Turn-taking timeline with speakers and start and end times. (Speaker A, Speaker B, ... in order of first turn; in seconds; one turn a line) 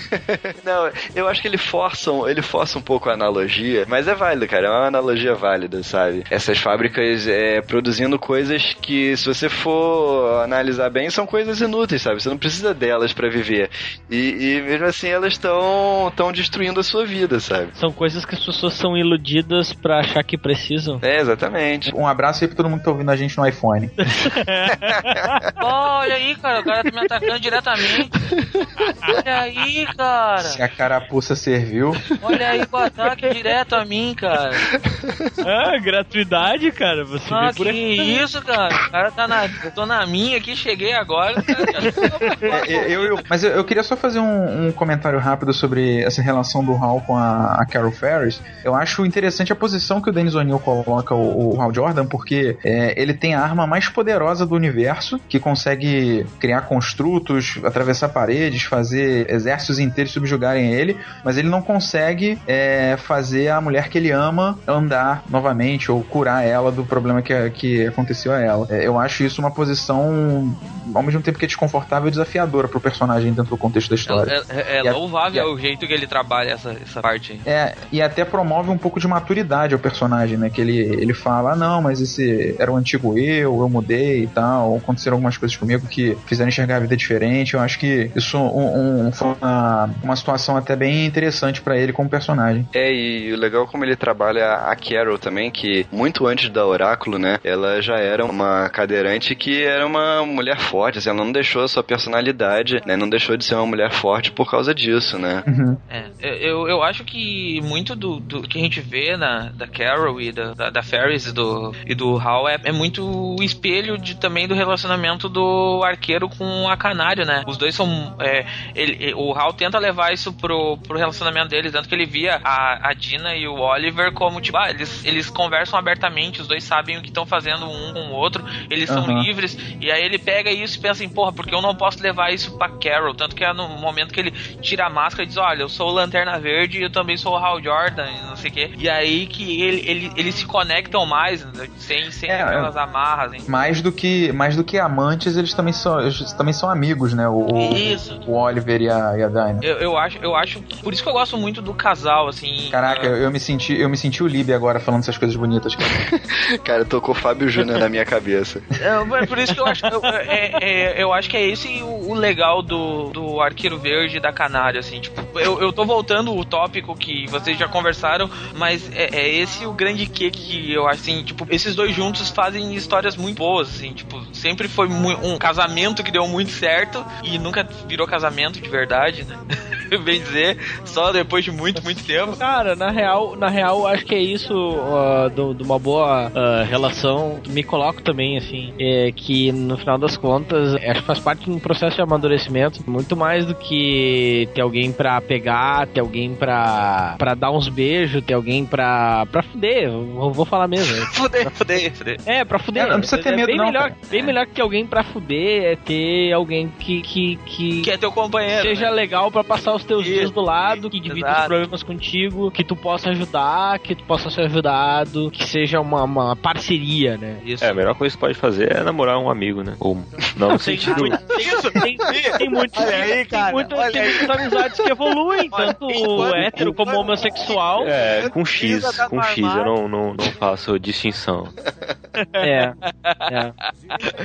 Speaker A: 0.1-17.7
Speaker B: 17.8-21.0
Speaker A: 21.0-21.9
Speaker C: 21.9-24.1
Speaker B: 24.0-25.4
Speaker D: 25.6-28.1
Speaker D: 29.0-30.6
Speaker C: 30.4-32.0
Speaker D: 32.2-34.6
Speaker A: 34.8-35.3
Speaker B: 35.4-38.2
Speaker D: 37.3-43.2
Speaker C: 42.5-75.5
Speaker D: 74.1-77.4
Speaker C: 77.5-92.7
Speaker A: 92.7-105.5
Speaker C: 105.5-105.8
Speaker D: 105.9-143.5
Speaker C: 128.9-129.3
Speaker C: 142.3-142.7
Speaker C: 143.5-149.7
Speaker D: 147.5-148.2
Speaker D: 149.6-153.2
Speaker C: 152.7-156.0
Speaker A: 155.9-158.7
Speaker D: 158.8-182.4
Speaker B: 159.5-160.3
Speaker B: 181.8-207.9
Speaker D: 200.8-202.2
Speaker C: 202.8-204.0
Speaker D: 207.8-208.9
Speaker B: 208.5-217.4
Speaker D: 210.0-211.6
Speaker D: 217.4-218.0
Speaker E: 217.6-221.2
Speaker B: 220.5-227.9
Speaker D: 220.9-224.9
Speaker D: 225.5-229.7
Speaker E: 227.8-231.6
Speaker D: 232.2-233.3
Speaker B: 232.4-232.8
Speaker B: 233.3-233.6